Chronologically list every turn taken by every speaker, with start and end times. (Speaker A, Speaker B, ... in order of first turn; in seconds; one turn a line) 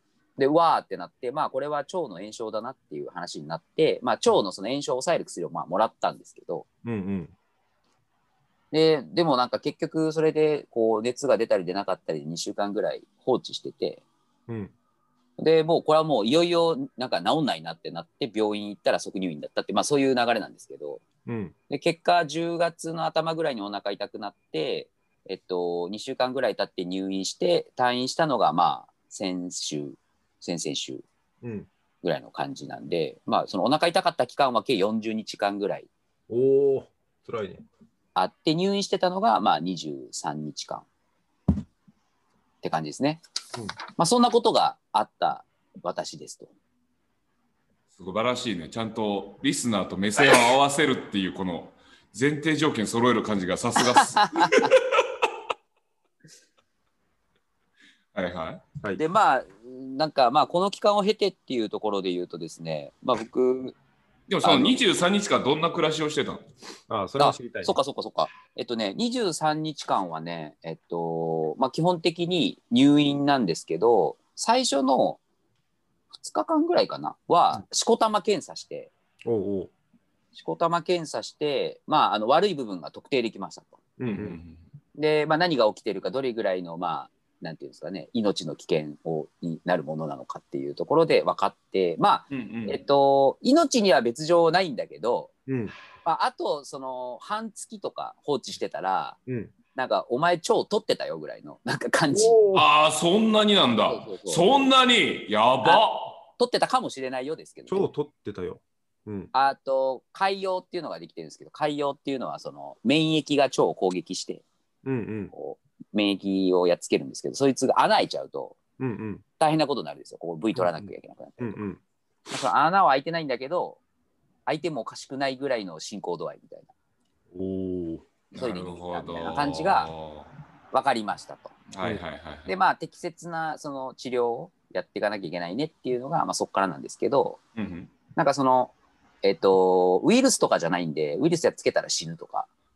Speaker A: 0.4-6.7
Speaker B: 6.8-7.3
Speaker A: 8.7-14.0
Speaker A: 15.4-21.0
Speaker B: 21.2-21.5
Speaker A: 21.7-31.1
Speaker B: 31.4-31.7
Speaker A: 32.0-35.9
Speaker B: 36.3-37.6
Speaker A: 38.1-40.9
Speaker A: 42.6-43.2
Speaker A: 44.0-46.5
Speaker C: 47.9-54.8
Speaker A: 54.0-54.7
Speaker C: 58.1-58.6
Speaker A: 59.0-63.8
Speaker C: 64.3-66.5
Speaker A: 64.4-64.8
Speaker B: 66.9-67.7
Speaker A: 67.2-75.2
Speaker A: 76.1-78.9
Speaker B: 79.2-79.7
Speaker A: 80.3-83.8
Speaker B: 84.0-84.4
Speaker C: 84.1-84.6
Speaker A: 85.0-95.3
Speaker C: 92.3-92.8
Speaker B: 95.5-95.7
Speaker A: 96.0-99.2
Speaker B: 99.3-99.5
Speaker A: 99.8-102.4
Speaker B: 102.1-102.7
Speaker C: 102.5-106.2
Speaker A: 103.9-104.5
Speaker A: 106.4-107.9
Speaker B: 107.7-109.3
Speaker A: 109.3-114.4
Speaker B: 114.8-115.3
Speaker A: 115.3-118.6
Speaker B: 118.8-119.2
Speaker A: 119.4-121.6
Speaker B: 120.6-121.8
Speaker A: 122.3-123.8
Speaker A: 124.5-126.7
Speaker B: 127.3-128.1
Speaker C: 128.3-130.3
Speaker A: 128.3-129.9
Speaker A: 130.7-131.5
Speaker C: 131.7-132.5
Speaker A: 132.5-137.4
Speaker C: 137.6-137.9
Speaker A: 138.1-142.5